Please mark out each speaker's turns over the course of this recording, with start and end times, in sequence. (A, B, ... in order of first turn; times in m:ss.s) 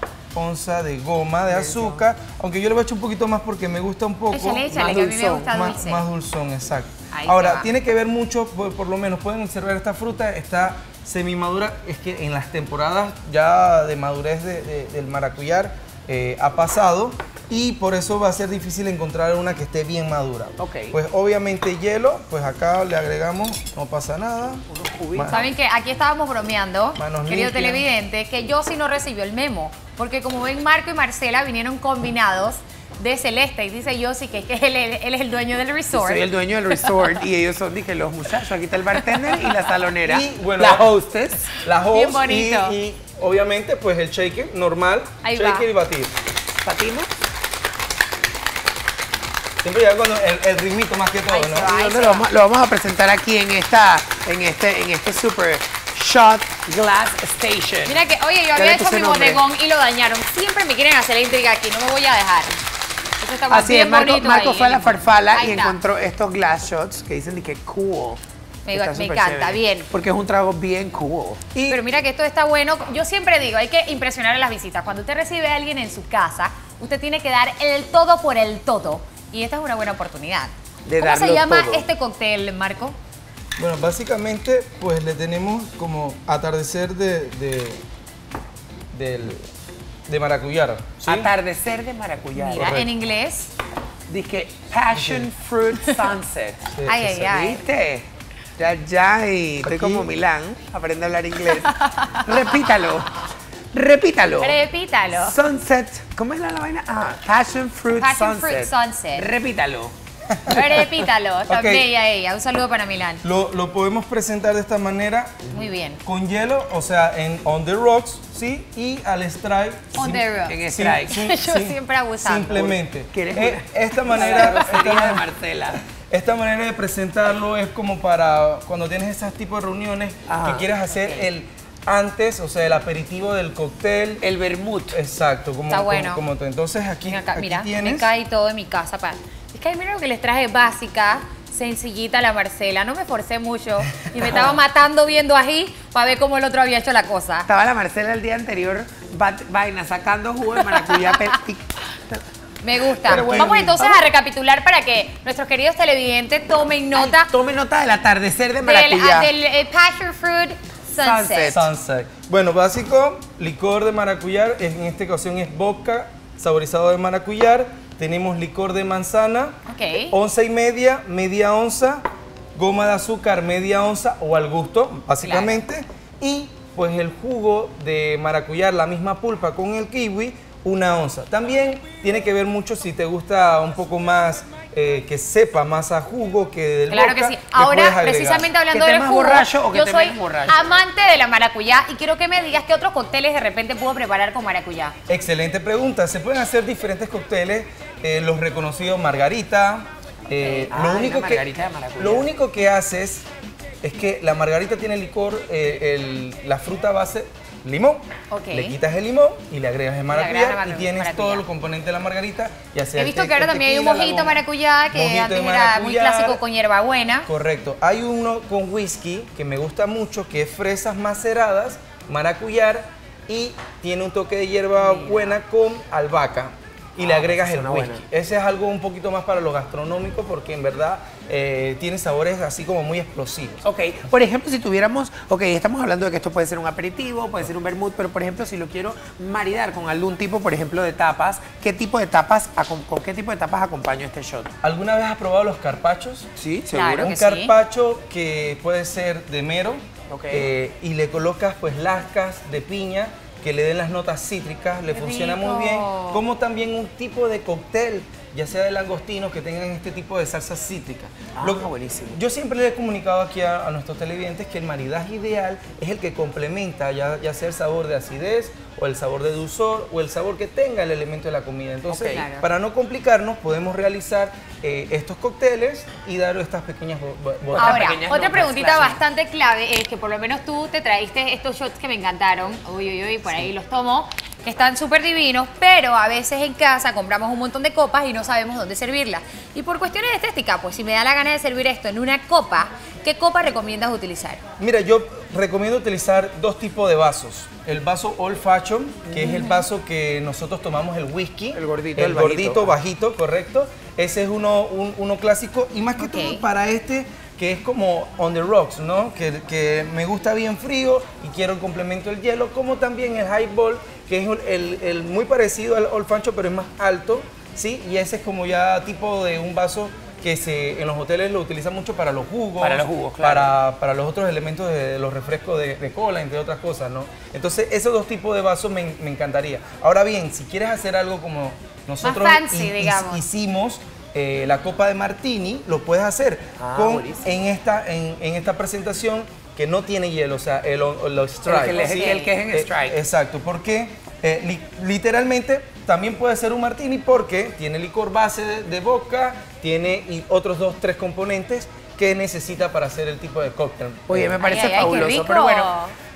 0:00.3-0:04.7 A
0:01.5-0:02.0 B
0:04.3-0:06.1 C
0:04.7-0:05.5 B
0:05.4-0:25.5 A
0:07.1-0:07.7 C
0:20.6-0:21.0 B
0:24.7-0:25.5 B
0:25.3-0:36.3 C
0:27.0-0:27.9 A
0:35.9-0:41.5 B
0:40.0-0:40.9 A
0:41.6-0:46.1 A
0:41.9-0:42.8 C
0:45.2-0:45.7 C
0:46.6-0:47.1 B
0:49.6-0:51.7 A
0:51.3-0:52.3 C
0:51.6-0:58.0 B
0:57.8-1:02.6 C
0:58.6-0:59.4 B
1:03.2-1:05.8 C
1:03.5-1:11.4 B
1:08.7-1:09.9 C
1:11.5-1:11.8 A
1:11.7-1:23.0 C
1:20.9-1:21.9 B
1:23.6-1:27.8 A
1:28.9-1:29.5 A
1:30.1-1:31.3 A
1:31.0-1:32.8 B
1:32.4-1:33.5 C
1:32.6-1:32.9 A
1:34.1-1:38.0 B
1:34.9-1:35.3 A
1:36.7-1:37.1 A
1:36.8-1:37.6 C
1:38.6-1:44.6 B
1:39.6-1:40.1 A
1:41.7-1:42.4 C
1:44.4-1:45.4 C
1:45.1-1:49.9 B
1:48.0-1:49.3 C
1:50.3-1:50.9 A
1:50.5-1:53.2 C
1:51.5-1:51.9 A
1:53.2-1:55.5 A
1:55.5-1:56.0 C
1:56.0-2:05.3 A
2:00.0-2:02.7 C
2:00.5-2:01.2 B
2:02.5-2:05.8 B
2:04.1-2:04.8 C
2:06.1-2:14.2 A
2:10.3-2:10.7 B
2:11.0-2:11.2 C
2:14.2-2:15.0 B
2:14.9-2:18.1 A
2:15.7-2:16.2 C
2:17.1-2:27.5 C
2:27.5-2:32.2 B
2:30.6-2:31.3 C
2:32.6-2:37.3 C
2:33.0-2:34.0 B
2:33.1-2:33.7 A
2:36.9-2:39.3 B
2:38.6-2:41.6 C
2:41.0-2:41.7 B
2:41.5-2:52.0 A
2:49.7-2:50.2 C
2:52.6-3:08.5 A
2:55.2-2:55.6 C
3:06.9-3:15.0 C
3:08.7-3:10.7 B
3:15.1-3:21.5 A
3:20.4-3:20.7 C
3:20.7-3:22.3 B
3:22.0-3:23.2 A
3:23.8-3:36.4 A
3:28.3-3:28.8 C
3:30.1-3:31.4 C
3:33.0-3:37.3 C
3:37.3-3:53.6 A
3:44.8-3:45.3 B
3:47.0-3:48.0 B
3:53.6-4:04.5 B
4:04.6-4:06.3 A
4:06.4-4:07.1 B
4:06.7-4:07.5 C
4:07.0-4:38.0 A
4:10.1-4:10.5 B
4:14.9-4:16.2 C
4:21.3-4:22.2 B
4:31.9-4:32.3 B
4:32.1-4:32.5 C
4:37.5-4:39.0 B
4:37.6-4:54.4 C
4:54.6-5:54.4 A
4:59.1-4:59.4 B
4:59.2-4:59.7 C
5:01.5-5:02.8 B
5:06.0-5:06.4 C
5:22.6-5:23.6 B
5:32.0-5:33.2 C
5:36.6-5:37.3 B
5:41.5-5:43.0 B
5:41.6-5:42.3 C
5:54.1-5:55.7 B
5:54.4-5:55.9 C